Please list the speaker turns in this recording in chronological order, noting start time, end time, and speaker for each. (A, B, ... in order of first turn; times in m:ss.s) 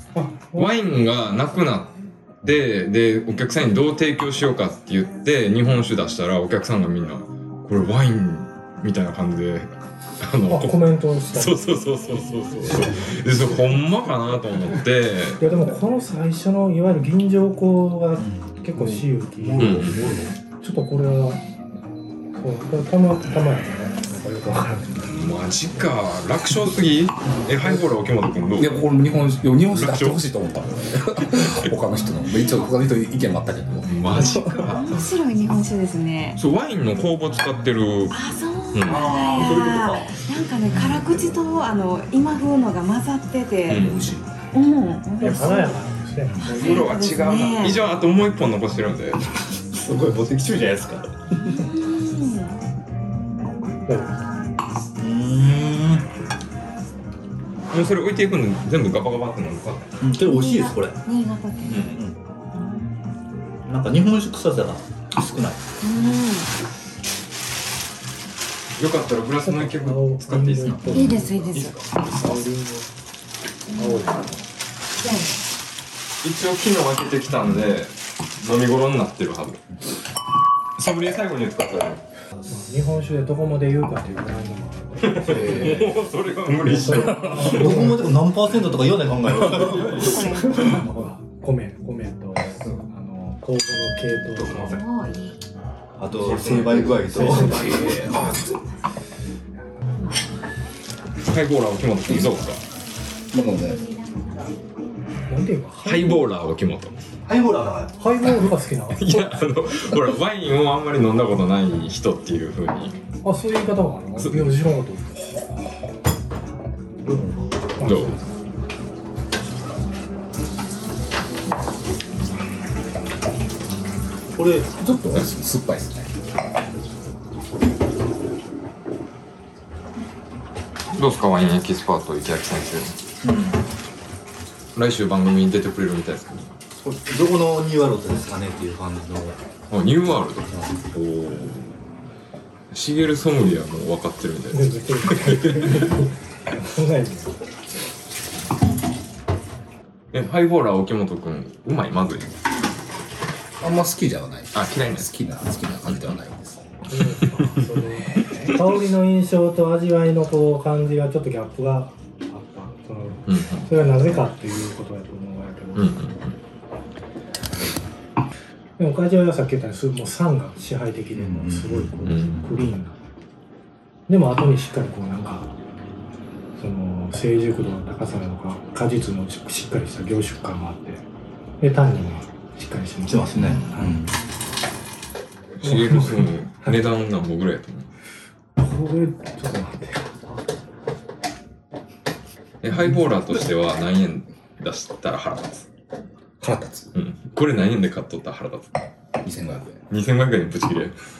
0:00.1-0:00.7 A
0:00.5-0:10.8 B
0:10.4-0:11.6 A
0:11.3-0:15.4 B
0:12.7-0:13.2 C
0:15.4-0:19.7 A
0:18.2-0:20.4 C
0:19.6-0:20.1 B
0:20.5-0:21.4 A
0:22.3-0:25.3 A
0:25.1-0:28.8 B
0:28.6-0:34.3 D
0:29.6-0:30.3 B
0:31.3-0:31.6 B
0:33.8-0:35.1 B
0:34.6-0:36.4 E
0:36.4-0:38.2 B
0:38.1-0:43.9 E
0:38.7-0:39.2 B
0:38.9-0:40.2 C
0:43.7-0:44.0 B
0:44.5-0:45.7 E
0:45.2-0:46.8 A
0:46.5-0:47.8 E
0:46.5-0:49.2 B
0:49.7-0:51.7 C
0:51.5-0:52.6 E
0:55.0-0:56.1 C
0:57.7-0:59.9 B
1:00.0-1:01.0 C
1:00.3-1:01.8 E
1:01.7-1:02.0 B
1:01.8-1:02.2 C
1:02.5-1:02.9 E
1:03.6-1:05.6 C
1:05.8-1:06.5 E
1:08.8-1:11.9 B
1:09.4-1:12.9 A
1:10.8-1:12.1 E
1:13.7-1:14.0 E
1:13.8-1:14.3 A
1:16.2-1:19.6 B
1:20.8-1:22.0 B
1:22.5-1:28.2 A
1:25.0-1:27.8 B
1:25.2-1:25.9 D
1:27.2-1:30.9 C
1:29.6-1:30.0 B
1:29.9-1:30.8 E
1:30.5-1:34.7 A
1:34.4-1:34.8 C
1:34.6-1:35.4 E
1:36.0-1:38.3 C
1:36.2-1:38.5 D
1:37.1-1:38.4 A
1:41.3-1:42.6 B
1:43.3-1:43.8 D
1:43.8-1:44.6 E
1:45.2-1:46.2 A
1:45.8-1:47.0 B
1:47.2-1:48.0 C
1:48.0-1:49.4 A
1:48.9-1:53.0 B
1:53.2-1:55.7 A
1:54.2-1:54.6 B
1:57.0-1:57.6 C
1:57.8-1:58.2 A
1:57.8-1:58.2 B
2:04.3-2:04.9 C
2:04.8-2:06.1 D
2:10.9-2:13.0 B
2:13.2-2:13.6 C
2:14.7-2:16.5 B
2:16.8-2:19.4 C
2:19.7-2:21.8 B
2:22.7-2:25.9 B
2:24.5-2:27.4 A
2:30.1-2:32.4 B
2:33.6-2:36.6 D
2:34.5-2:35.1 B
2:36.8-2:46.0 A
2:43.3-2:43.7 B
2:45.8-2:46.4 B
2:48.8-2:53.0 A
2:51.1-2:52.6 C
2:52.0-2:52.5 B
2:54.1-2:55.5 A
2:56.5-3:01.0 A
3:01.6-3:03.9 A
3:03.0-3:04.2 C
3:05.6-3:07.9 B
3:05.6-3:06.8 A
3:08.6-3:10.1 A
3:12.6-3:15.7 B
3:16.4-3:16.9 D
3:16.9-3:18.9 B
3:19.2-3:19.8 D
3:19.9-3:21.0 B